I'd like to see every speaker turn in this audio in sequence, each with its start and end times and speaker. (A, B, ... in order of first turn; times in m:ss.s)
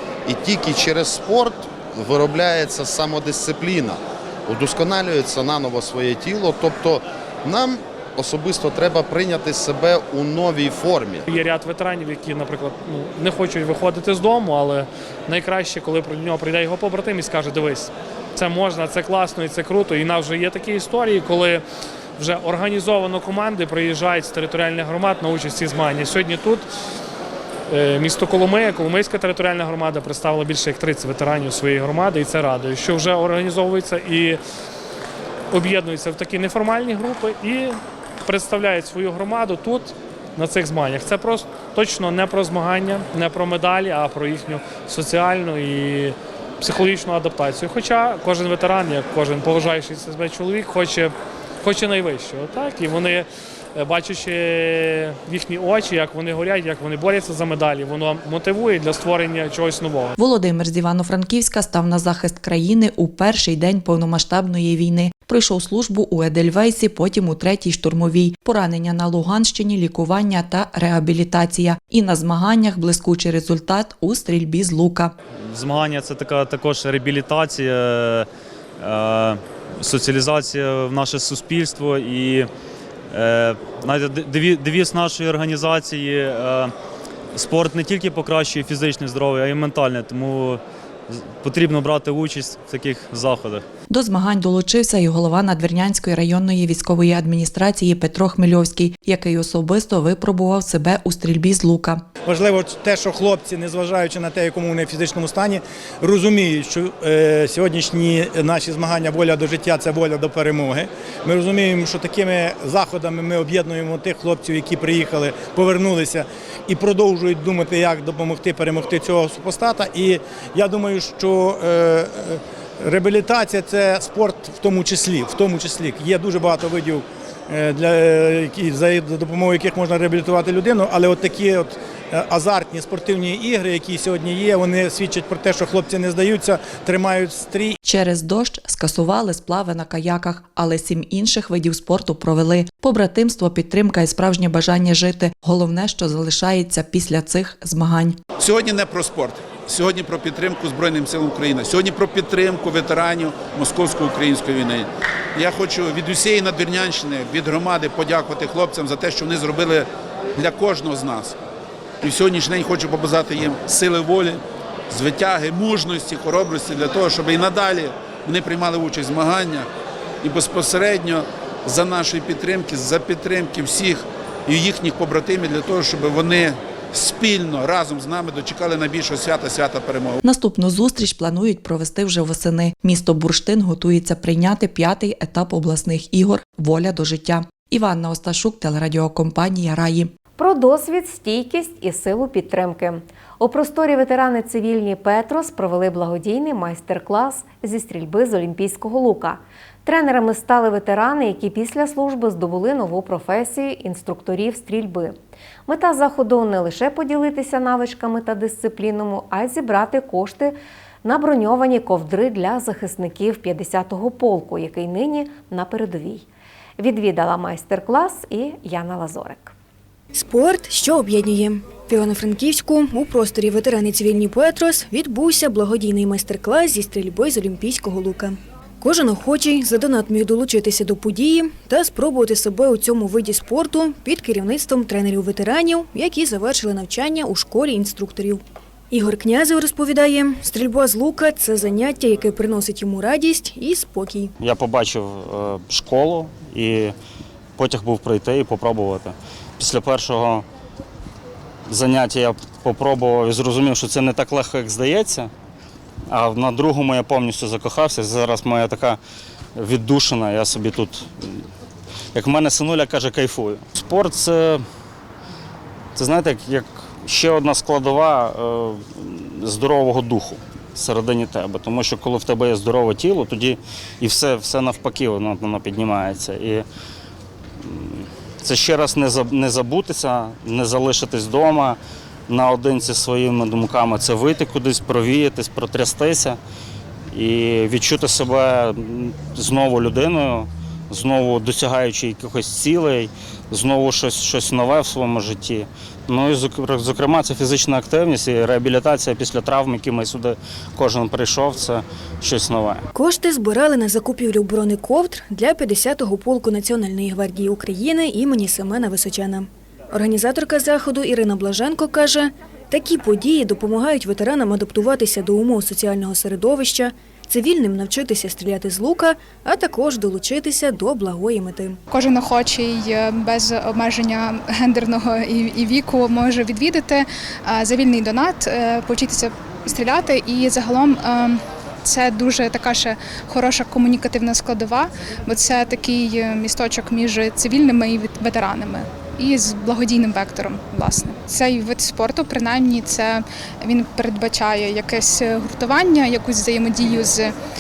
0:00.3-0:11.3 A
0:11.3-0:21.6 B
0:22.2-0:26.7 B
0:27.7-0:34.4 B
0:35.5-1:00.2 B
1:00.2-1:15.1 C
1:15.5-1:18.2 D
1:18.8-1:22.5 D
1:23.1-1:26.7 D
1:27.4-1:30.6 D
1:31.3-1:33.6 D
1:33.9-1:42.0 C
1:42.2-2:17.8 E
2:17.9-2:28.2 C
2:28.4-2:41.4 F
2:42.0-2:49.7 F
2:50.2-3:00.2 F
3:00.2-3:10.1 C
3:10.4-3:25.2 G
3:25.7-3:36.3 G
3:36.8-3:39.5 G
3:40.1-4:04.3 H
4:04.4-4:07.0 I
4:07.6-4:10.4 I
4:11.7-4:15.3 I
4:16.1-4:19.0 I
4:19.6-4:21.4 I
4:22.1-4:24.6 I
4:26.0-4:36.6 I
4:37.6-4:46.4 I
4:47.1-5:02.8 I
5:02.9-5:21.8 H
5:21.9-5:47.4 J